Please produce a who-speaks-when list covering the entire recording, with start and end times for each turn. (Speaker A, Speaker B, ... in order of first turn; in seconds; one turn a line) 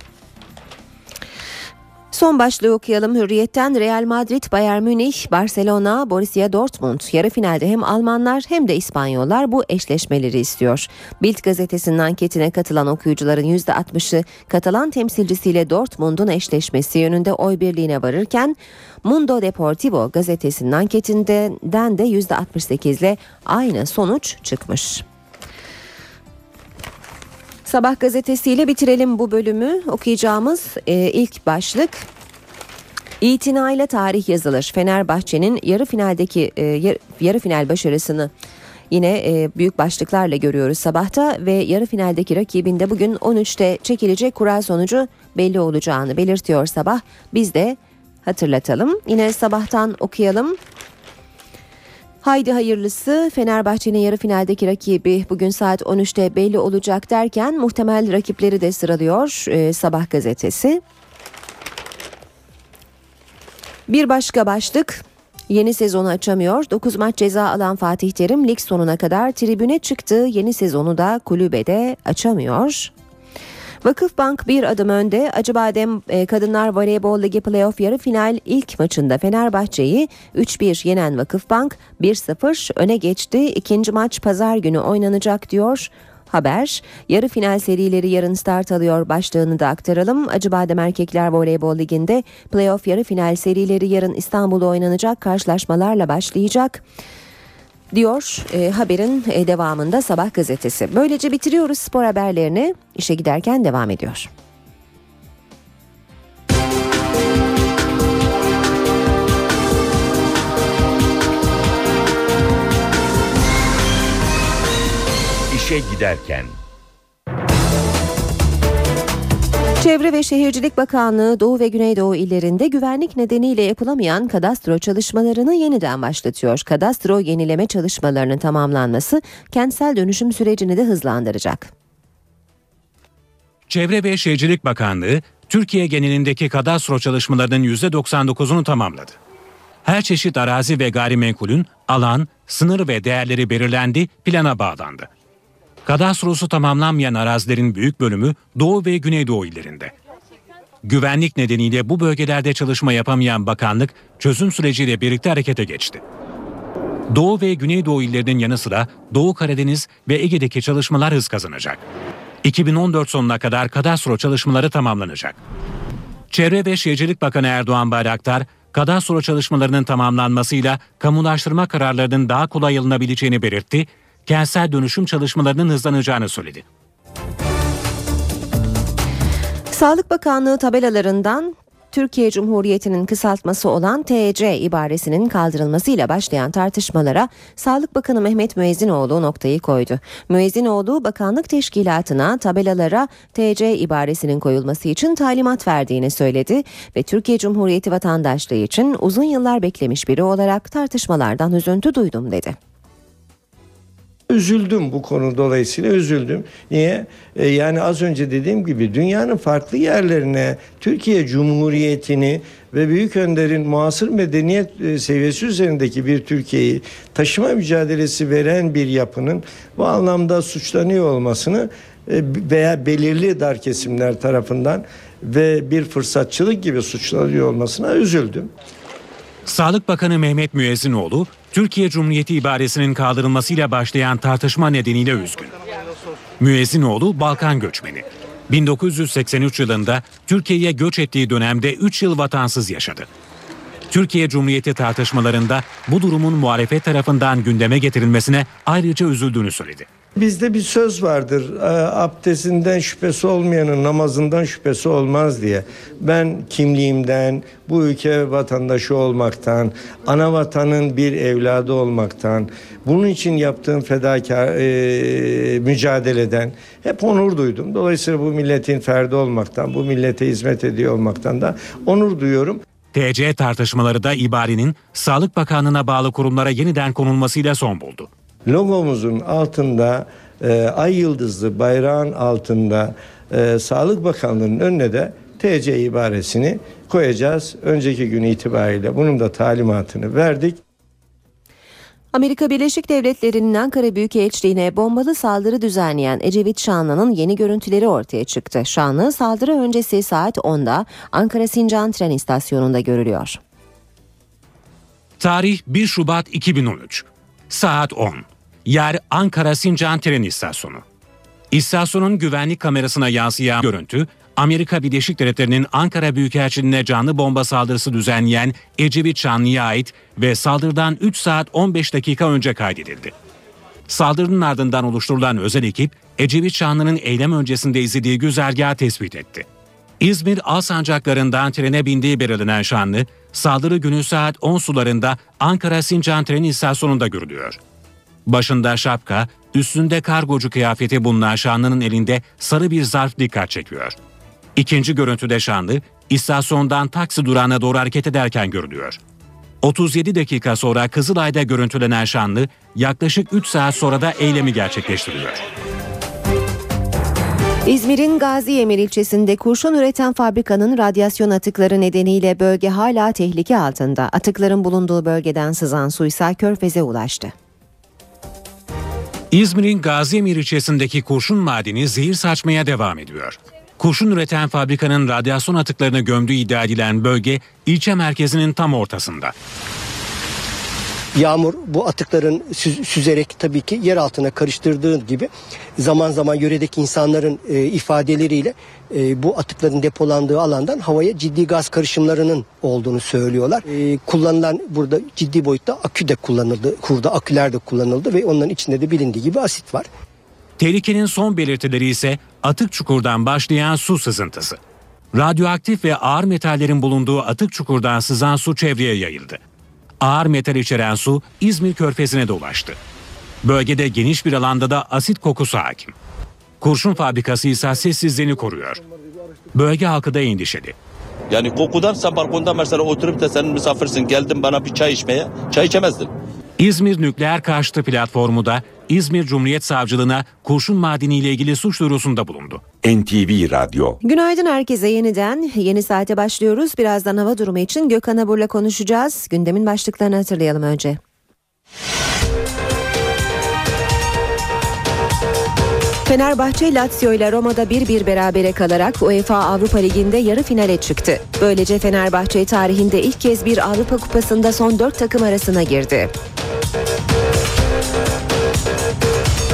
Speaker A: 2.1-25.0
Speaker A: 27.6-32.1
Speaker A: 33.2-38.3
Speaker A: 38.9-50.6
Speaker A: 52.2-60.8
Speaker A: 63.9-72.9
Speaker A: 73.8-96.8
Speaker A: 97.9-104.3
Speaker B: 115.5-116.6
Speaker A: 119.8-131.7
Speaker C: 133.7-139.2
Speaker C: 139.8-145.1
Speaker C: 145.8-149.9
Speaker C: 150.8-156.0
Speaker C: 157.1-161.8
Speaker C: 162.4-165.4
Speaker C: 166.3-176.7
Speaker A: 179.7-202.6
Speaker D: 204.3-228.5
Speaker C: 229.5-235.6
Speaker C: 236.4-243.1
Speaker C: 243.9-249.9
Speaker D: 250.2-272.6
Speaker C: 272.9-278.1
Speaker D: 278.5-290.6
Speaker A: 292.1-303.4
Speaker C: 305.2-310.8
Speaker C: 311.5-323.1
Speaker C: 323.9-329.5
Speaker C: 330.0-337.6
Speaker C: 338.3-344.0
Speaker C: 344.6-349.0
Speaker C: 349.6-355.4
Speaker A: 357.7-367.3
Speaker C: 369.3-379.3
Speaker E: 381.1-399.9
Speaker C: 400.6-404.6
Speaker C: 405.1-409.4
Speaker C: 410.0-412.8
Speaker C: 413.4-415.9
Speaker C: 416.6-418.8
Speaker C: 419.5-420.8
Speaker F: 421.3-426.1
Speaker C: 426.6-432.6
Speaker B: 432.8-434.0
Speaker A: 434.0-441.0
Speaker A: 446.1-456.1